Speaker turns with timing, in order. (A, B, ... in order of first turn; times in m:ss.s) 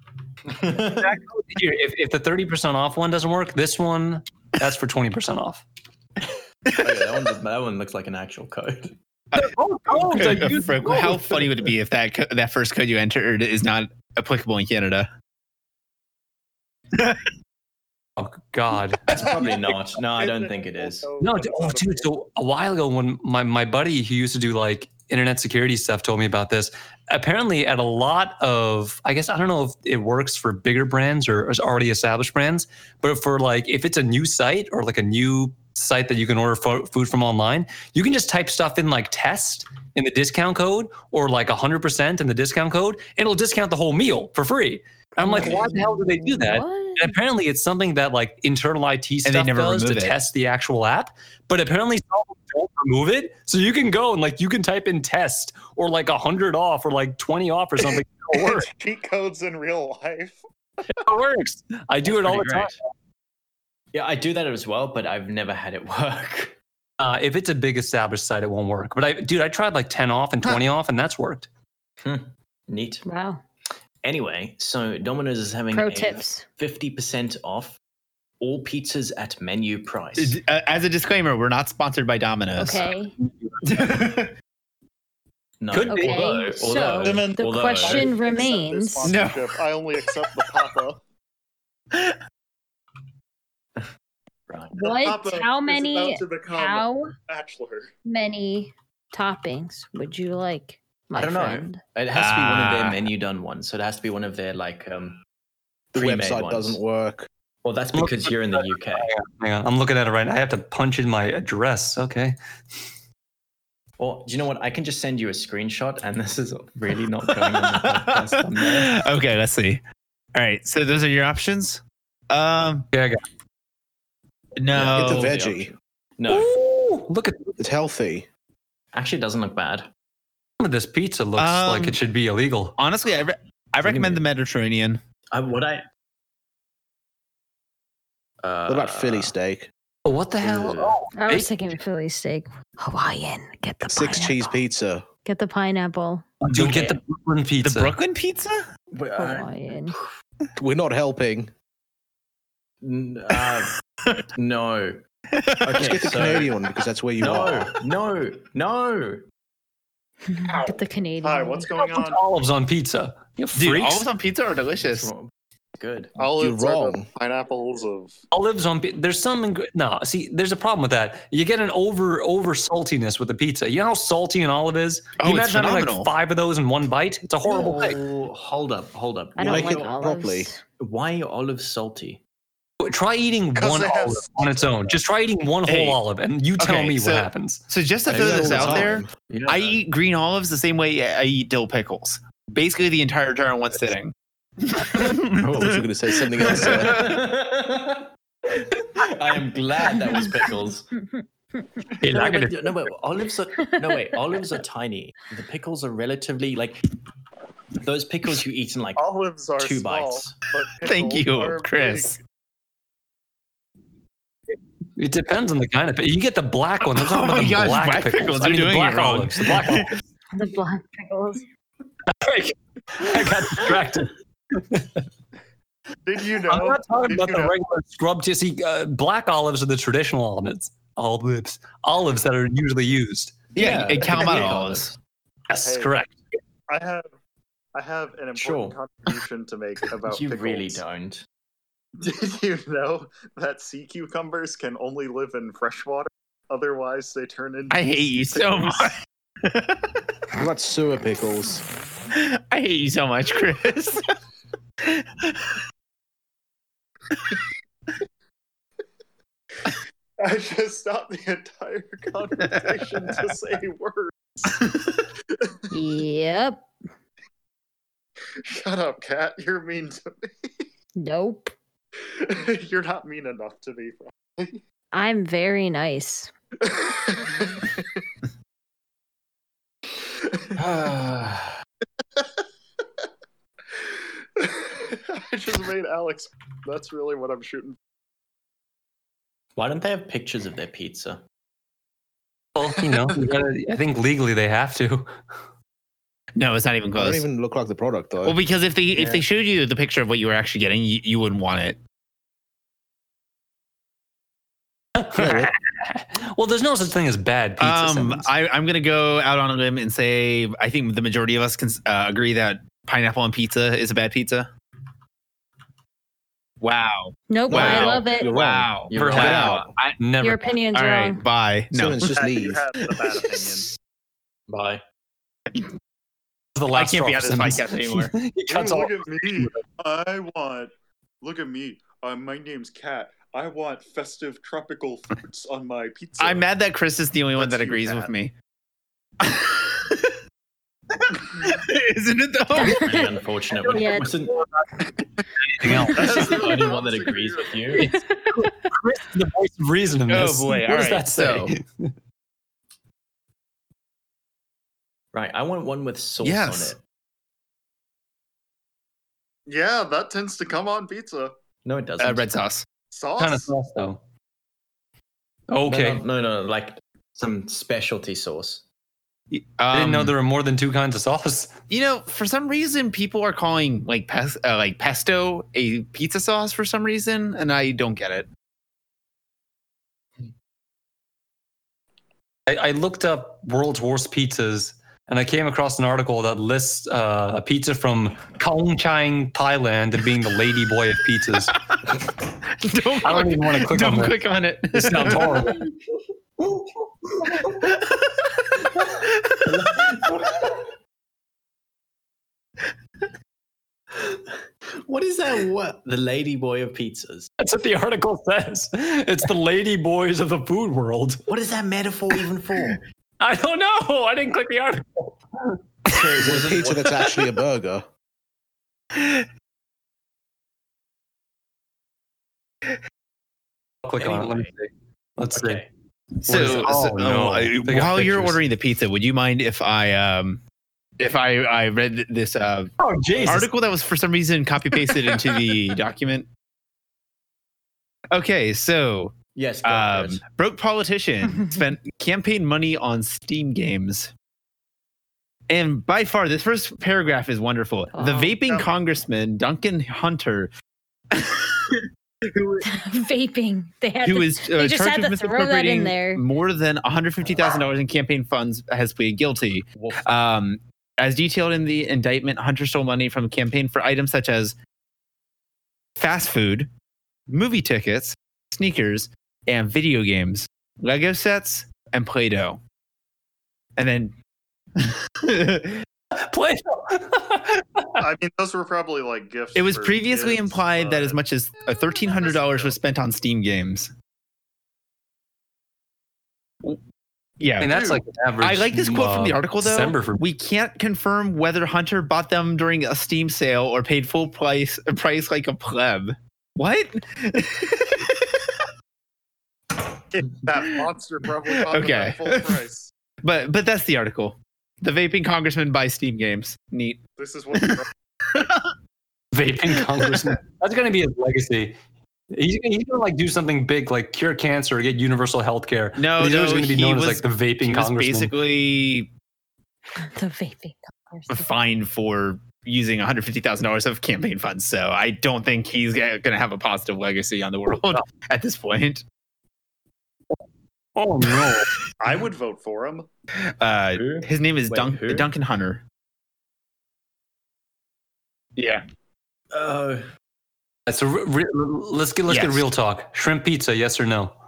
0:00.5-0:01.1 A
0:01.0-0:05.6 B
0:06.7-0:07.1 C
0:06.8-0:09.0 A
0:09.3-0:15.1 C
0:09.4-0:11.5 B
0:16.9-0:17.2 C
0:18.2-0:19.1 B
0:19.1-0:21.1 A
0:20.2-0:22.1 D
0:21.2-0:58.7 B
0:45.2-0:47.2 E
0:49.2-0:50.2 C
0:58.4-1:00.4 D
1:00.9-1:02.8 B
1:02.0-1:02.8 A
1:03.9-1:06.6 A
1:07.0-1:11.5 B
1:12.0-1:13.0 A
1:13.0-1:13.4 E
1:14.0-1:17.8 A
1:15.7-1:16.4 E
1:18.4-1:20.4 A
1:20.2-1:22.8 C
1:22.6-1:23.2 E
1:23.6-1:24.3 C
1:25.6-1:28.1 A
1:25.7-1:26.3 B
1:25.9-1:29.2 E
1:27.0-1:31.0 D
1:29.0-1:29.6 C
1:34.5-1:34.7 A
1:34.8-1:37.2 E
1:34.8-1:37.9 D
1:38.0-1:41.8 E
1:41.2-1:45.2 A
1:42.2-1:43.0 C
1:45.9-1:47.3 F
1:46.0-1:46.8 A
1:47.6-1:49.1 A
1:47.9-1:52.4 B
1:54.0-1:59.0 A
1:57.5-1:59.8 C
2:00.4-2:02.9 C
2:02.9-2:03.2 B
2:04.6-2:05.4 C
2:04.7-2:06.5 A
2:04.8-2:05.7 F
2:06.3-2:07.6 B
2:07.6-2:08.3 F
2:08.9-2:09.9 A
2:10.6-2:12.8 B
2:11.4-2:12.0 C
2:12.8-2:15.0 C
2:13.8-2:14.2 A
2:15.3-2:15.8 A
2:18.4-2:19.3 A
2:18.7-2:19.7 F
2:20.0-2:21.5 B
2:20.4-2:21.0 A
2:21.2-2:24.6 E
2:23.8-2:25.1 F
2:25.2-2:26.3 E
2:26.4-2:27.9 B
2:26.5-2:26.9 C
2:26.7-2:27.0 A
2:27.6-2:28.6 C
2:28.9-2:30.1 A
2:29.2-2:30.0 E
2:30.6-2:31.5 F
2:32.8-2:33.7 A
2:34.3-2:35.0 A
2:35.3-2:36.4 C
2:35.6-2:36.5 A
2:35.7-2:37.7 F
2:37.2-2:39.2 A
2:40.3-2:41.7 E
2:41.2-2:42.2 D
2:41.8-2:44.1 B
2:43.6-2:45.1 C
2:44.8-2:46.2 A
2:46.2-2:48.2 D
2:46.4-2:47.1 F
2:48.3-2:58.0 B
2:55.2-2:56.1 C
2:57.5-2:59.9 A
2:59.4-3:00.6 E
2:59.4-3:00.5 F
3:00.8-3:02.2 A
3:02.8-3:07.6 B
3:03.6-3:04.9 D
3:05.7-3:06.0 C
3:06.6-3:15.8 C
3:08.1-3:09.8 A
3:08.1-3:09.1 F
3:15.4-3:17.1 F
3:16.4-3:17.2 C
3:16.4-3:20.9 A
3:22.0-3:22.8 B
3:22.0-3:26.8 A
3:23.8-3:24.2 E
3:27.8-3:29.0 A
3:29.0-3:32.2 D
3:29.6-3:30.4 A
3:30.8-3:32.2 C
3:35.0-3:40.0 B
3:36.9-3:39.9 C
3:40.3-3:41.5 E
3:42.1-3:45.0 B
3:46.0-3:47.5 D
3:46.5-3:53.5 B
3:53.6-3:54.9 C
3:53.6-3:55.0 A
3:55.5-3:56.1 B
3:55.6-3:55.9 D
3:56.7-3:57.1 D
3:57.8-4:00.8 D
3:58.4-3:58.8 A
4:00.1-4:01.2 A
4:02.0-4:08.9 D
4:07.7-4:10.0 C
4:10.4-4:11.6 F
4:12.1-4:14.1 C
4:14.8-4:15.6 C
4:20.2-4:24.6 D
4:22.4-4:23.2 C
4:24.5-4:24.9 C
4:25.7-4:26.7 E
4:28.4-4:30.5 D
4:31.0-4:31.6 E
4:32.1-4:34.6 D
4:34.9-4:36.3 E
4:36.6-4:37.8 D
4:40.6-4:41.6 A
4:44.4-4:47.8 D
4:49.6-4:51.2 A
4:52.6-4:55.1 B
4:56.4-4:57.2 C
4:57.0-4:58.4 F
4:58.2-5:01.8 C
5:05.0-5:08.3 B
5:05.2-5:05.5 F
5:07.6-5:14.5 C
5:16.6-5:20.0 C
5:17.3-5:18.3 E
5:17.5-5:19.5 F
5:18.9-5:19.7 A
5:19.0-5:19.5 B
5:20.0-5:20.5 B
5:20.2-5:21.2 E
5:20.7-5:23.7 C
5:21.7-5:22.6 F
5:22.1-5:23.7 D
5:24.5-5:24.8 A
5:26.6-5:29.6 B
5:26.7-5:28.1 C
5:28.5-5:36.5 D
5:36.2-5:38.3 C
5:37.4-5:38.1 D
5:39.2-5:40.2 C
5:40.9-5:43.2 C
5:42.5-5:43.1 E
5:42.6-5:44.3 A
5:43.7-5:44.1 E
5:45.6-5:46.4 B
5:45.8-5:47.8 D
5:45.9-5:47.9 A
5:47.8-5:48.5 E
5:47.8-5:51.9 B
5:50.1-5:51.5 C
5:55.1-5:56.8 A
5:56.2-5:56.8 C
5:59.5-6:01.3 D
6:01.6-6:02.3 A
6:02.0-6:02.6 C
6:02.9-6:03.5 D
6:03.2-6:04.0 B
6:05.5-6:06.0 B
6:05.7-6:08.6 A
6:09.3-6:10.1 C
6:09.7-6:11.6 B
6:11.7-6:18.3 C
6:22.5-6:31.5 B
6:32.6-6:35.6 C
6:33.0-6:34.2 B
6:34.7-6:35.6 B
6:37.4-6:40.1 C
6:39.5-6:40.6 A
6:44.8-6:47.3 A
6:47.4-6:51.2 B
6:51.3-6:52.8 A
6:53.2-6:55.6 B
6:55.9-6:57.0 A
6:56.2-6:57.9 F
7:03.8-7:05.6 B
7:04.0-7:04.5 A
7:05.3-7:05.7 A
7:06.2-7:10.4 C
7:06.3-7:08.4 B
7:06.3-7:06.7 A
7:11.0-7:12.7 C
7:12.8-7:13.5 B
7:13.1-7:13.5 A
7:13.2-7:16.3 C
7:18.1-7:24.1 C
7:19.4-7:20.2 A
7:25.5-7:30.5 C
7:27.9-7:28.4 E
7:31.1-7:31.8 C
7:32.3-7:32.6 C
7:32.6-7:36.2 E
7:34.0-7:44.6 C
7:39.8-7:40.1 A
7:46.0-7:46.7 C
7:47.3-7:52.6 C
7:53.8-7:54.1 C
7:54.8-7:55.8 C
7:56.2-7:58.1 B
7:58.0-8:01.2 D
7:59.6-8:03.9 C
8:02.0-8:02.8 D
8:07.4-8:18.4 C
8:07.6-8:10.2 B
8:20.1-8:22.9 D
8:21.5-8:22.6 C
8:23.2-8:27.0 C
8:27.2-8:27.9 D
8:27.6-8:27.8 C
8:28.3-8:28.7 C
8:29.3-8:31.8 B
8:29.7-8:30.4 C
8:32.3-8:38.3 B
8:36.0-8:39.1 C
8:40.0-8:41.5 E
8:41.3-8:49.0 C
8:51.0-8:51.8 B
8:52.0-8:53.1 D
8:53.6-8:55.8 C
8:53.9-8:55.3 A
8:58.6-8:58.8 C
8:59.5-9:00.0 A
9:00.9-9:04.4 B
9:02.3-9:02.7 C